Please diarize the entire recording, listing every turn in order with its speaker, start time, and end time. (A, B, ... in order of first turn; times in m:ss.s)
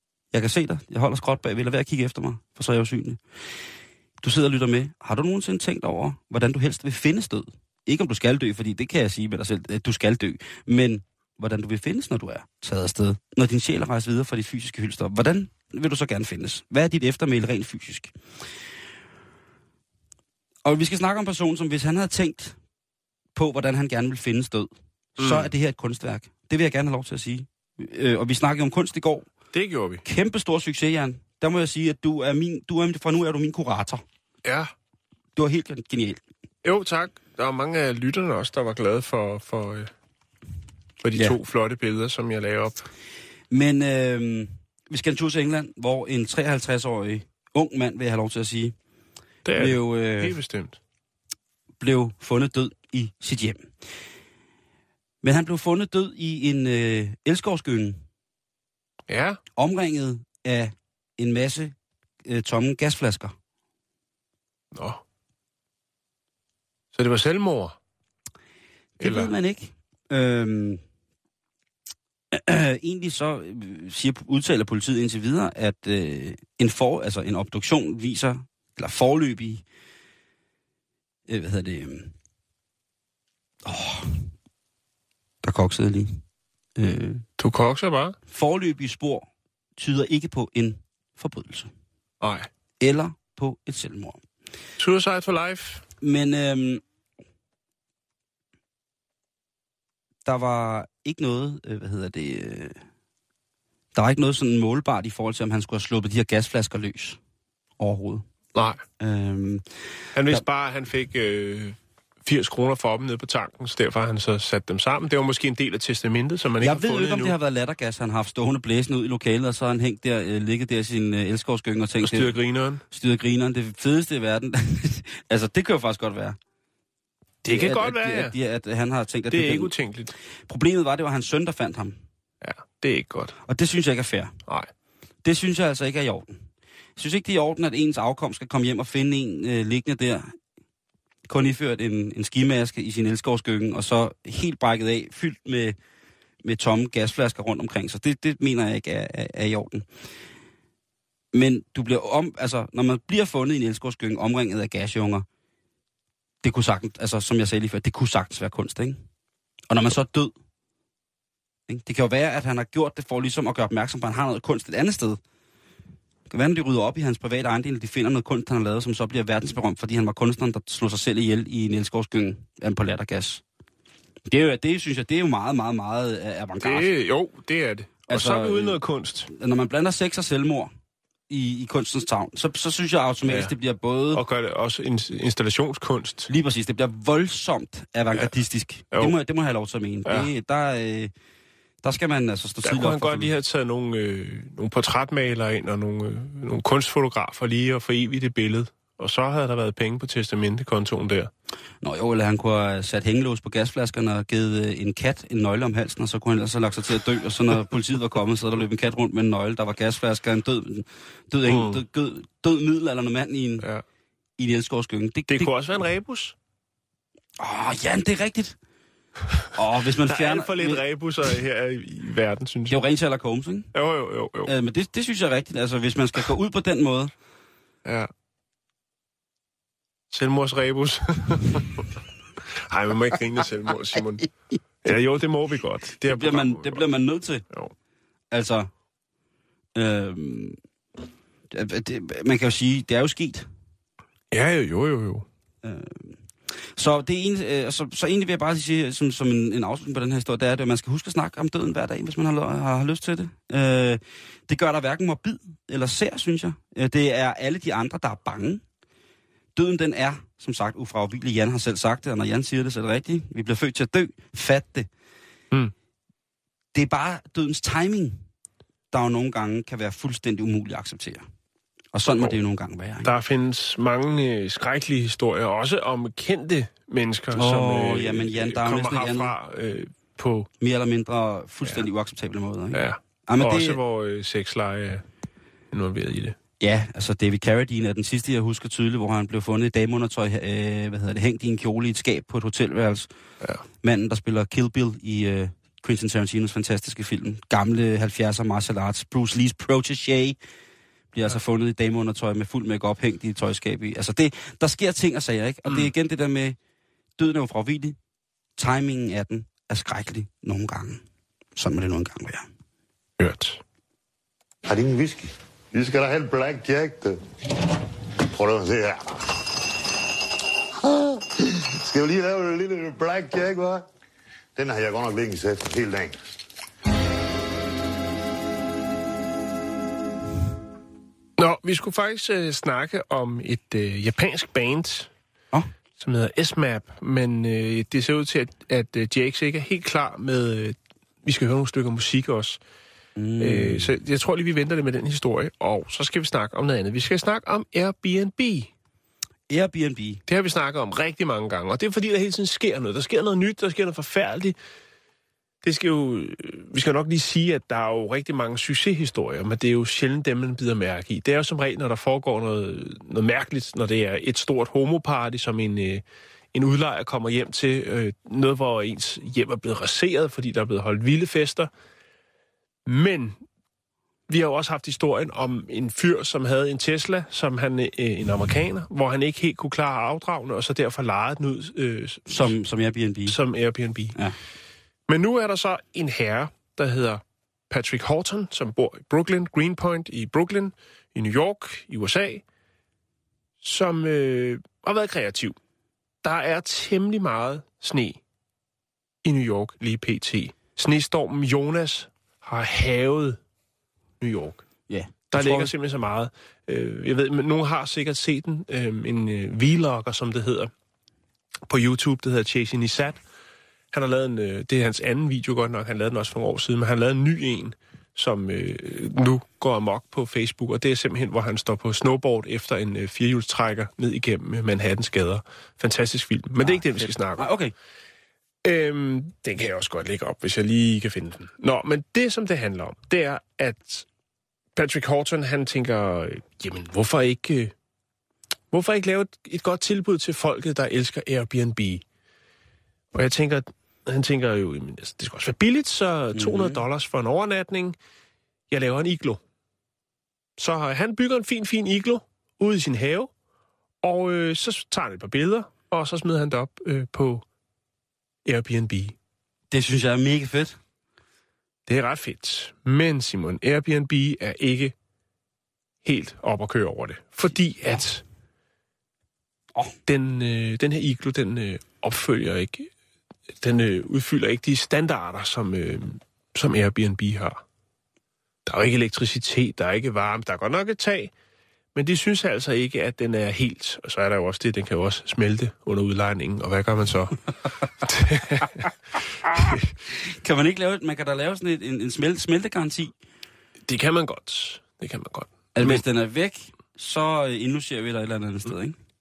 0:00.3-0:03.2 A
0:04.2-0:18.1 A
0:20.6-0:22.6 A
0:23.3-0:29.3 A
0:25.2-0:25.5 B
0:29.5-0:30.0 B
0:30.0-0:34.0 A
0:34.4-0:34.7 B
0:35.4-0:36.2 A
0:36.6-0:39.9 B
0:41.0-0:42.8 B
0:43.5-0:48.7 A
0:49.4-0:50.8 B
0:49.6-0:50.4 A
0:51.8-0:53.7 A
0:55.2-0:58.0 A
0:59.1-0:59.4 B
0:59.6-1:03.3 A
1:04.7-1:05.0 B
1:06.9-1:07.8 B
1:09.0-1:09.3 B
1:09.0-1:10.8 A
1:12.3-1:19.6 A
1:21.3-1:22.1 A
1:23.6-1:24.2 A
1:25.4-1:26.2 A
1:26.8-1:27.2 A
1:27.4-1:28.2 B
1:28.3-1:31.7 A
1:32.2-1:32.5 B
1:32.8-1:34.2 A
1:34.8-1:35.8 B
1:36.0-1:36.8 A
1:40.2-1:42.8 A
1:43.9-1:47.2 A
1:47.8-1:48.2 A
1:48.5-1:48.8 B
1:49.0-1:49.6 A
1:50.1-1:57.3 B
1:56.6-2:02.4 A
2:02.0-2:02.8 B
2:02.9-2:06.4 A
2:07.4-2:08.3 B
2:07.5-2:09.7 A
2:09.3-2:10.1 B
2:10.5-2:12.0 A
2:12.4-2:13.3 B
2:13.5-2:14.3 A
2:15.2-2:16.4 A
2:17.0-2:20.3 A
2:21.2-2:25.8 A
2:26.4-2:29.8 A
2:31.3-2:35.2 A
2:36.4-2:39.0 A
2:39.7-2:40.3 A
2:41.7-2:45.2 A
2:46.3-2:53.4 A
2:54.3-2:56.9 A
2:56.6-2:59.3 B
2:58.1-3:00.7 A
3:01.3-3:04.2 A
3:03.2-3:03.5 B
3:04.1-3:06.3 B
3:06.3-3:11.1 A
3:10.0-3:10.3 B
3:11.8-3:13.3 A
3:12.6-3:21.3 B
3:21.8-3:33.7 A
3:31.4-3:31.8 B
3:34.4-3:35.5 A
3:35.3-3:36.3 B
3:37.4-3:38.6 A
3:39.5-3:40.8 A
3:40.0-3:42.8 B
3:42.7-3:43.7 A
3:43.7-3:44.5 B
3:44.4-3:47.1 A
3:47.8-3:48.1 B
3:50.1-3:51.9 B
3:52.4-3:54.3 B
3:54.8-3:56.8 B
3:56.1-3:57.4 A
3:58.3-3:58.7 A
3:59.8-4:00.6 A
4:01.5-4:03.5 A
4:04.3-4:05.2 B
4:05.6-4:06.2 A
4:06.8-4:18.6 A
4:19.6-4:24.9 A
4:26.7-4:28.2 A
4:28.9-4:31.2 A
4:31.9-4:33.1 A
4:32.1-4:32.4 B
4:33.0-4:40.5 B
4:37.3-4:39.3 A
4:40.6-4:43.8 A
4:42.7-4:45.0 B
4:45.7-4:46.4 B
4:46.6-4:53.1 A
4:53.8-5:00.4 A
5:01.1-5:06.6 A
5:07.2-5:08.0 A
5:08.6-5:11.0 A
5:11.6-5:12.5 A
5:13.2-5:13.6 B
5:14.6-5:17.2 C
5:18.3-5:19.4 C
5:21.7-5:23.8 C
5:24.6-5:26.2 C
5:31.4-5:35.1 B
5:36.0-5:42.6 B
5:43.2-5:43.9 A
5:43.4-5:48.7 B
5:49.5-5:50.2 A
5:50.3-5:54.6 B
5:55.6-6:11.7 B
6:12.8-6:13.4 B
6:14.3-6:22.5 B
6:22.3-6:23.4 A
6:23.3-6:24.2 B
6:25.1-6:32.4 B
6:33.6-6:35.6 B
6:36.2-6:38.2 B
6:39.2-6:43.4 B
6:44.2-6:44.6 B
6:44.9-6:45.7 A
6:45.3-6:50.7 B
6:51.7-6:53.2 B
6:53.9-7:07.5 B
7:06.6-7:07.7 A
7:08.6-7:14.0 B
7:14.8-7:17.7 B
7:18.7-7:22.0 B
7:23.1-7:28.0 B
7:26.3-7:26.8 A
7:28.7-7:29.4 B
7:30.6-7:33.3 B
7:34.0-7:37.4 B
7:38.4-7:39.2 B
7:39.7-7:40.8 A
7:41.9-7:44.9 B
7:46.0-7:48.2 B
7:50.0-7:52.9 B
7:53.6-7:57.6 B
7:58.6-8:01.3 B
8:01.9-8:07.4 B
8:08.0-8:08.9 B
8:09.5-8:09.8 B
8:10.2-8:13.1 A
8:13.8-8:16.0 B
8:15.7-8:19.0 A